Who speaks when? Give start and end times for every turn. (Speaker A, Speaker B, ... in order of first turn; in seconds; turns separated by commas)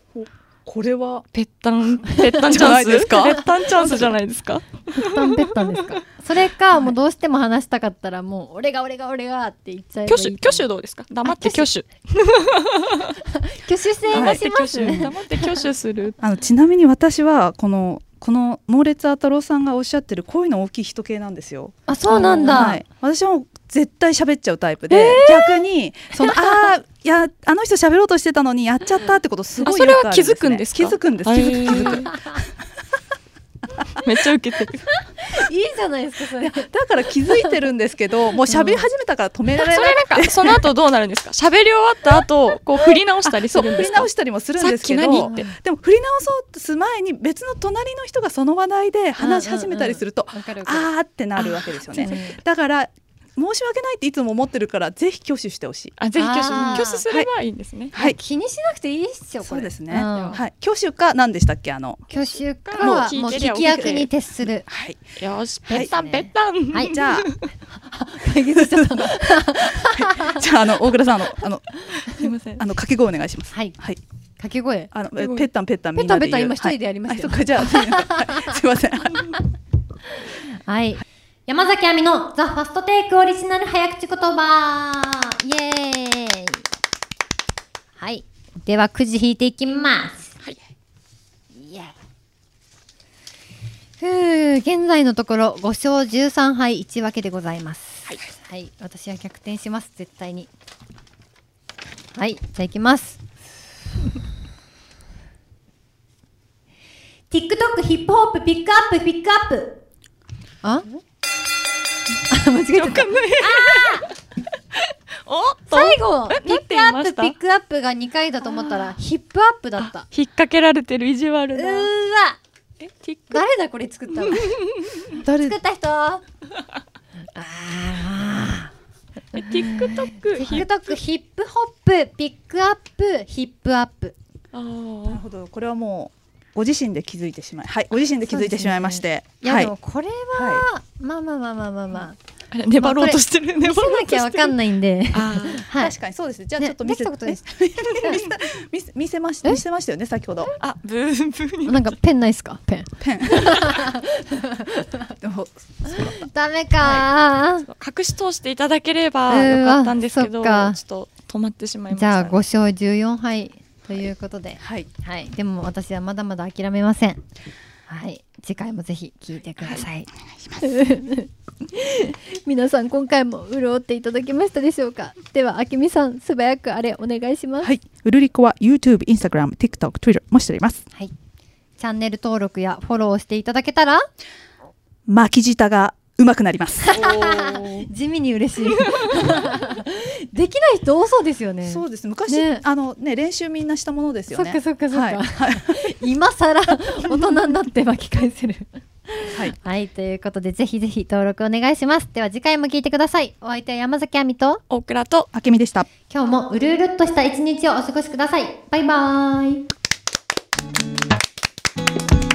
Speaker A: 0.1-1.2, Speaker B: 1.3-6.0, Speaker A: 2.5-4.2, Speaker C: 3.2-3.9, Speaker C: 4.9-10.7, Speaker B: 10.1-13.1, Speaker C: 11.2-11.7, Speaker C: 13.3-15.5, Speaker B: 14.1-16.2, Speaker A: 14.1-15.1, Speaker A: 16.2-21.8, Speaker C: 21.9-22.8, Speaker B: 22.1-22.8, Speaker A: 22.4-32.4, Speaker C: 24.9-25.6, Speaker B: 29.6-32.1, Speaker C: 31.8-32.4, Speaker B: 34.0-34.9, Speaker C: 35.2-36.7, Speaker A: 36.4-40.6, Speaker C: 37.3-37.6, Speaker B: 38.5-38.8, Speaker B: 39.5-45.5, Speaker A: 43.2-56.0, Speaker C: 45.2-45.5, Speaker C: 49.2-52.4, Speaker B: 52.0-52.3, Speaker B: 56.0-57.9, Speaker C: 56.1-57.0, Speaker A: 56.5-57.3, Speaker A: 57.9-58.2, Speaker C: 57.9-60.4, Speaker A: 59.4-62.0, Speaker B: 60.1-60.4, Speaker B: 62.1-64.1, Speaker C: 62.1-64.7, Speaker A: 62.8-63.1, Speaker A: 64.7-65.2, Speaker B: 65.2-67.5, Speaker C: 65.7-67.0, Speaker A: 66.9-67.3, Speaker C: 67.7-70.4, Speaker A: 68.5-74.0, Speaker B: 72.1-72.6, Speaker C: 73.5-73.8, Speaker C: 74.4-74.9, Speaker A: 74.9-79.4, Speaker C: 75.9-78.6, Speaker C: 80.4-86.6, Speaker C: 88.0-90.3, Speaker C: 91.5-91.9, Speaker C: 94.0-100.5, Speaker C: 102.1-103.2, Speaker C: 107.3-109.8, Speaker C: 112.3-114.1, Speaker B: 112.7-114.2, Speaker B: 114.8-117.4, Speaker C: 115.7-120.1, Speaker B: 118.4-119.0, Speaker B: 119.8-121.9, Speaker C: 121.5-122.4, Speaker B: 122.8-123.5, Speaker C: 123.3-126.2, Speaker B: 124.3-125.0, Speaker A: 125.2-125.6, Speaker C: 127.3-128.7, Speaker B: 129.3-131.0, Speaker C: 129.4-134.2, Speaker B: 134.5-135.2, Speaker A: 135.1-139.7, Speaker C: 137.9-142.2, Speaker A: 140.3-140.7, Speaker B: 142.5-144.6, Speaker C: 142.8-145.9, Speaker B: 145.1-145.7, Speaker A: 145.7-150.5, Speaker C: 146.6-148.2, Speaker B: 150.6-151.9, Speaker C: 151.6-155.1, Speaker A: 153.0-153.9, Speaker A: 155.2-157.1, Speaker C: 155.9-157.7, Speaker B: 157.6-162.4, Speaker C: 159.3-160.8, Speaker C: 161.9-167.2, Speaker A: 164.6-164.9, Speaker C: 167.9-177.7, Speaker B: 169.6-169.9, Speaker A: 170.4-170.6, Speaker A: 177.6-180.9, Speaker C: 181.8-184.1, Speaker A: 185.1-187.0, Speaker C: 186.8-192.6, Speaker B: 186.9-187.9, Speaker B: 188.7-189.5, Speaker A: 191.6-195.9, Speaker C: 194.3-204.6, Speaker A: 199.3-199.6, Speaker B: 204.7-205.3, Speaker A: 205.3-205.9, Speaker C: 206.1-209.7